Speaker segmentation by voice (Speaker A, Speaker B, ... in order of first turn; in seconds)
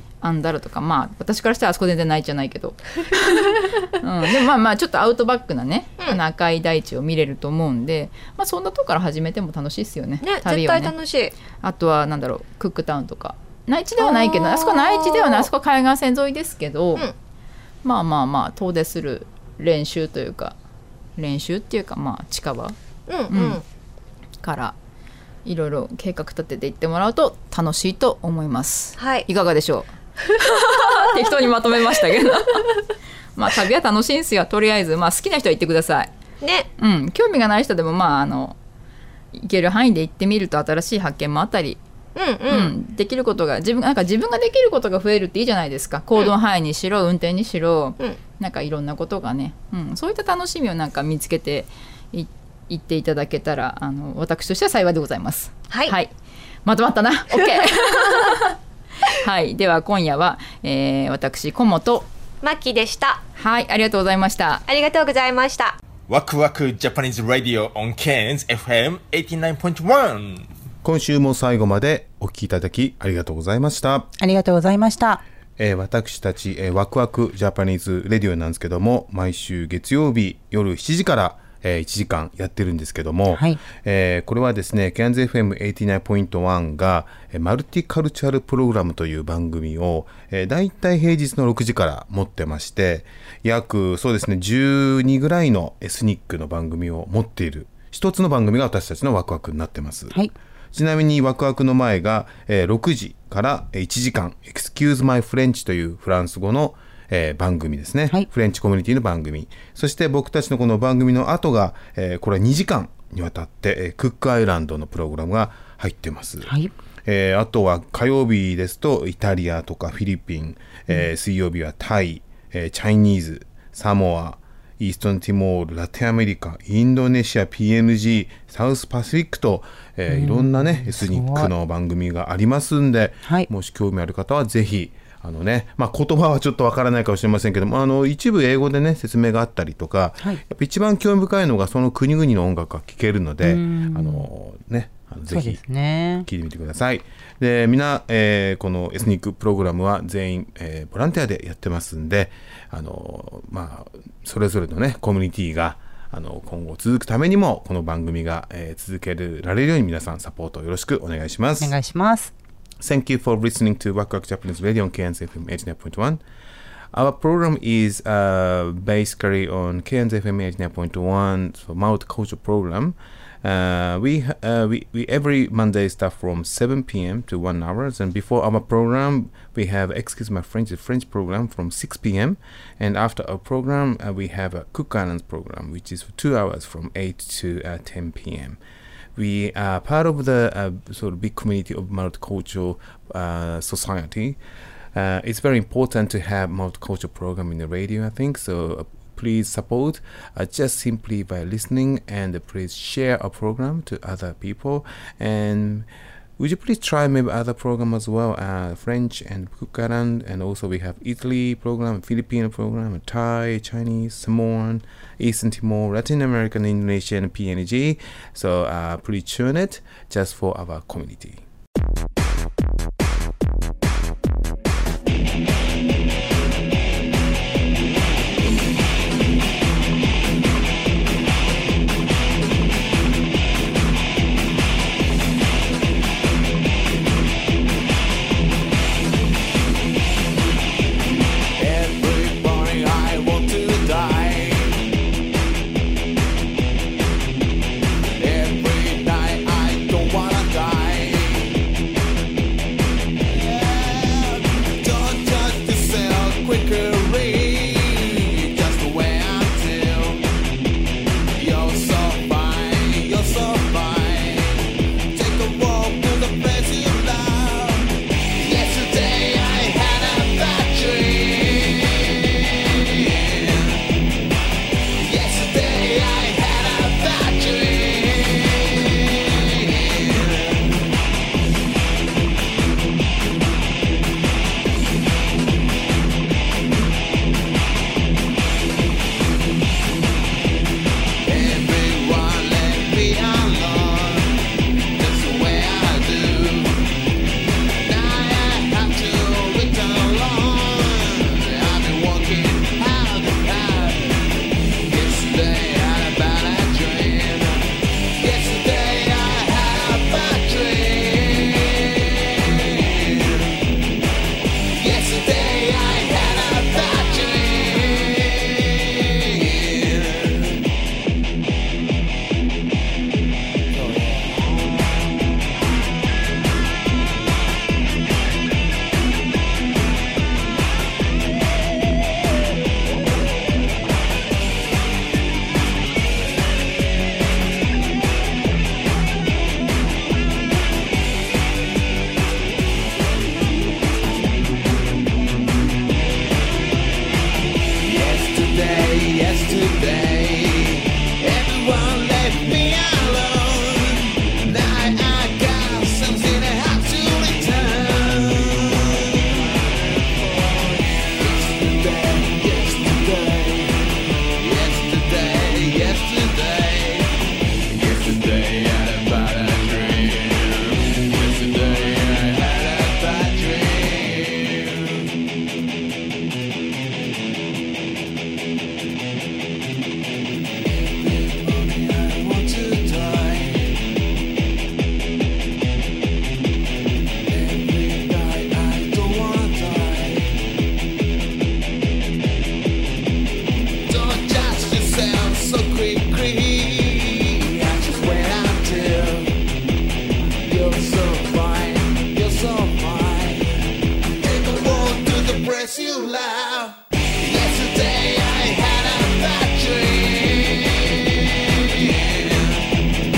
Speaker A: 0.2-10.9, 11.5-17.1, 17.8-20.5, 21.2-22.7, 23.3-23.6, 24.4-24.7, 25.4-32.6, 33.4-36.1, 36.8-38.5, 39.3-41.8, 42.5-56.1, 56.6-58.5, 59.2-62.0, 63.4-64.6
Speaker B: 10.2-11.3, 14.0-15.5, 23.1-23.6, 29.0-29.3, 36.4-36.7, 42.1-42.7, 55.7-55.9, 57.5-58.3, 62.4-63.2, 64.7-65.8
Speaker C: 66.1-70.5
Speaker D: 70.8-74.1, 75.6-100.1, 100.7-116.5, 117.0-145.6, 146.2-161.7, 162.8-166.2, 166.9-188.6, 189.1-194.4, 194.9-205.9, 206.4-221.4
Speaker E: 74.2-75.2, 83.3-83.6, 116.4-116.7, 130.1-131.5, 143.4-144.3, 145.3-146.2, 161.6-162.3
Speaker F: 241.6-244.8, 248.2-251.5, 253.2-260.2, 261.4-273.8, 275.0-280.8, 291.2-294.3, 295.0-296.8, 297.8-304.3, 304.9-313.5, 314.7-320.6, 347.8-367.1, 367.7-375.0, 380.6-383.8, 387.3-390.3, 393.9-399.3, 400.4-403.5, 404.2-412.7